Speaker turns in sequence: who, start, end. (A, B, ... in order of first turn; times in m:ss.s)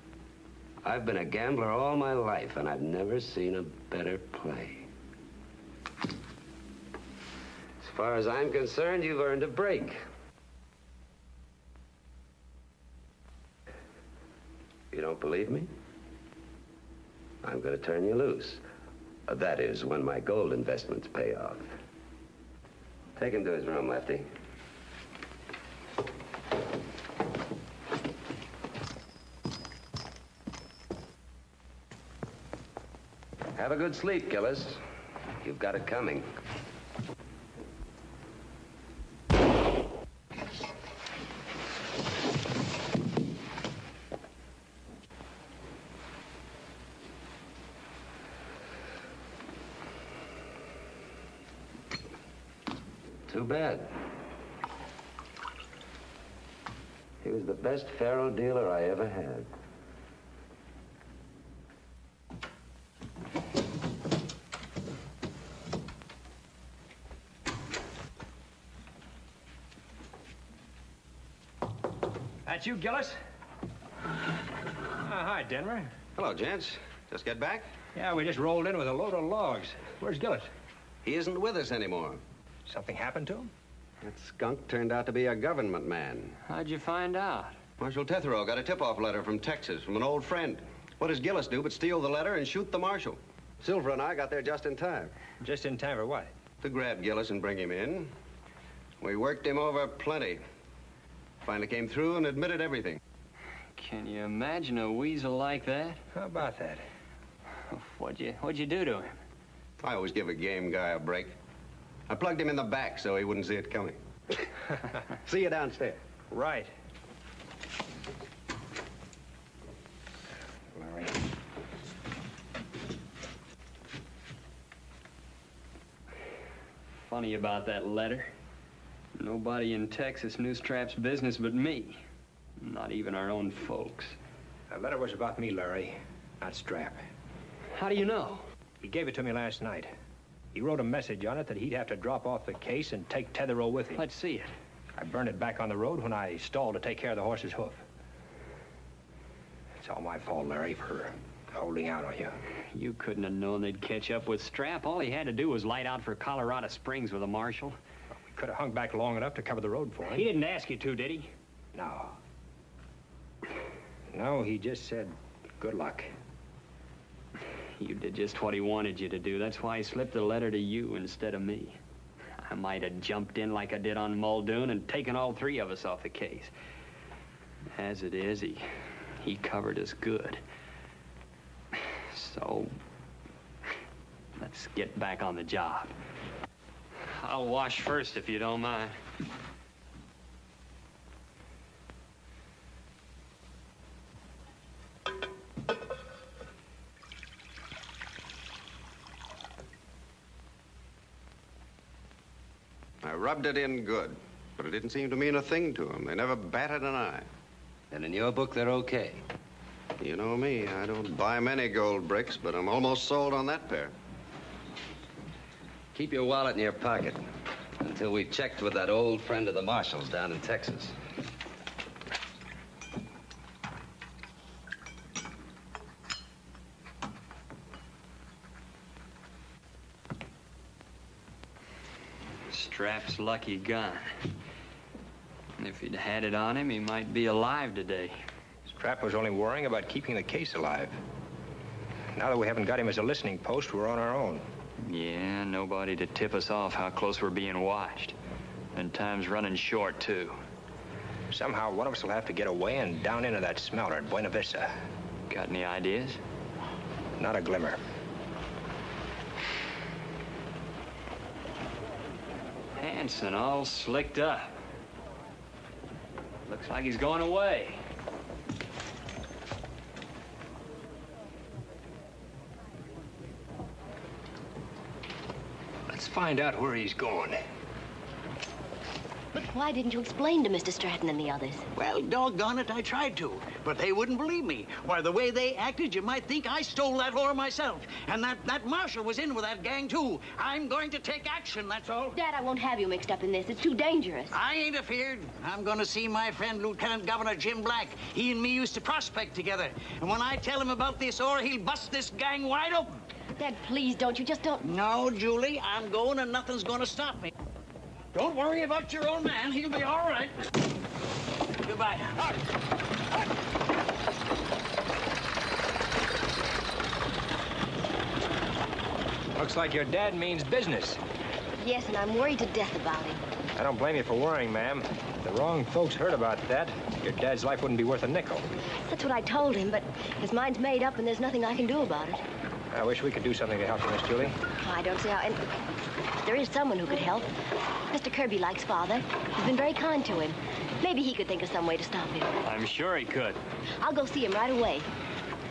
0:00.8-0:04.9 A
0:07.8-0:10.0 A
0:14.9-0:15.7 A
0:17.4-0:18.6 A
0:19.3-0:21.7 A
0:23.2-0:24.3 A
0:33.6-0:34.8 A
0:35.4-0:36.3 A
0:53.3-0:53.9 A
0:57.2-0:59.5 A
1:12.5-1:13.2 B
1:15.0-1:15.9 B
1:16.2-1:17.7 C
1:18.0-1:20.5 B
1:21.0-1:22.2 C
1:22.7-1:23.5 B
1:24.0-1:26.4 C
1:26.5-1:27.6 D
1:27.8-1:35.1 C
1:35.4-1:36.3 B
1:36.6-1:38.1 C
1:39.0-1:40.4 C
1:41.4-1:43.0 C
1:43.8-1:46.0 D
1:46.1-1:46.8 B
1:47.7-1:49.2 D
1:49.8-1:51.4 C
1:52.1-1:54.0 C
1:55.2-1:56.0 C
1:56.3-1:56.7 B
2:00.8-2:01.1 B
2:07.0-2:08.3 D
2:09.2-2:12.0 D
2:12.6-2:14.2 D
2:14.7-2:17.0 B
2:17.7-2:18.4 D
2:18.8-2:19.9 B
2:20.5-2:24.0 B
2:24.0-2:24.5 D
2:25.0-2:27.8 B
2:29.8-2:32.4 B
2:32.7-2:37.8 D
2:38.3-2:42.2 B
2:40.1-2:40.4 D
2:44.1-2:46.1 B
2:47.8-2:51.8 D
2:52.5-2:56.5 D
2:57.8-2:58.7 D
2:59.2-3:00.4 D
3:02.1-3:02.8 D
3:04.4-3:05.9 D
3:07.1-3:09.0 D
3:23.0-3:27.3 C
3:27.9-3:29.2 A
3:30.0-3:33.9 C
3:36.0-3:37.2 A
3:37.8-3:41.0 A
3:52.5-3:54.1 D
3:55.6-3:58.2 D
3:58.7-4:01.0 B
4:02.2-4:04.4 B
4:04.8-4:08.2 D
4:08.7-4:10.4 D
4:11.3-4:14.7 B
4:15.3-4:16.2 D
4:17.2-4:17.8 B
4:22.8-4:24.6 D
4:26.5-4:27.8 D
4:35.9-4:37.4 B
4:39.4-4:41.6 E
4:41.8-4:52.2 F
4:52.1-4:54.3 E
4:54.3-5:03.0 F
5:03.4-5:04.6 E
5:04.6-5:07.3 F
5:08.1-5:10.4 F
5:11.6-5:12.4 F
5:19.4-5:21.0 B
5:21.6-5:23.2 E
5:23.6-5:28.4 B
5:28.9-5:32.2 E
5:32.7-5:34.4 B
5:34.6-5:35.4 E
5:36.2-5:37.3 E
5:37.9-5:42.3 E
5:42.4-5:43.4 D
5:43.8-5:44.9 E